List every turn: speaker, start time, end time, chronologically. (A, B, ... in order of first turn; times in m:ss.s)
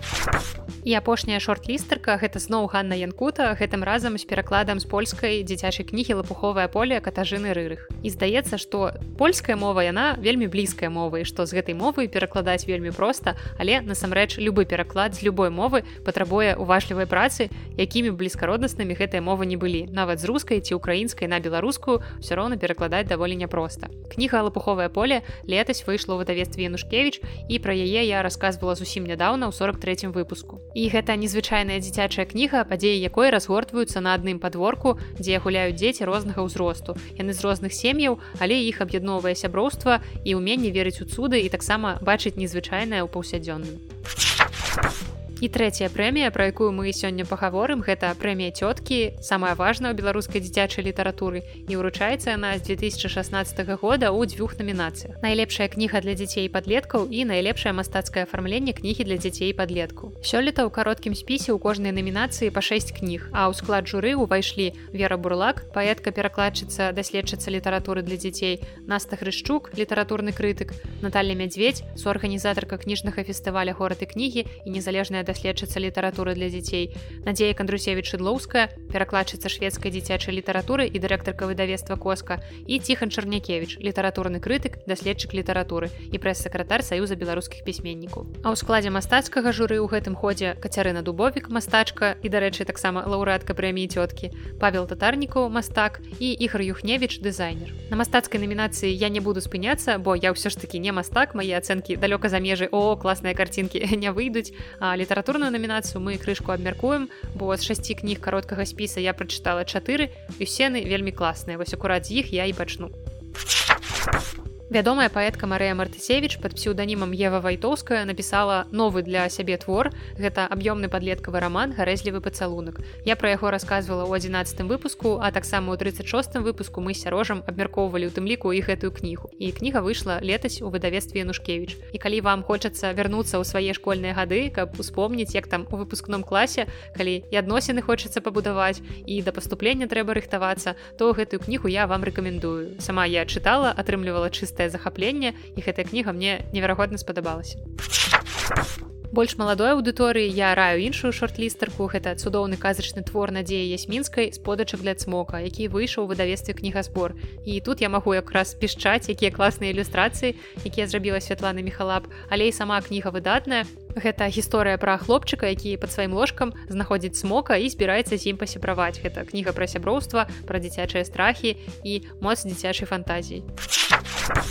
0:00.8-0:43.8 A
0:45.4-1:52.9 A
1:54.7-2:27.6 A
2:29.1-2:53.4 A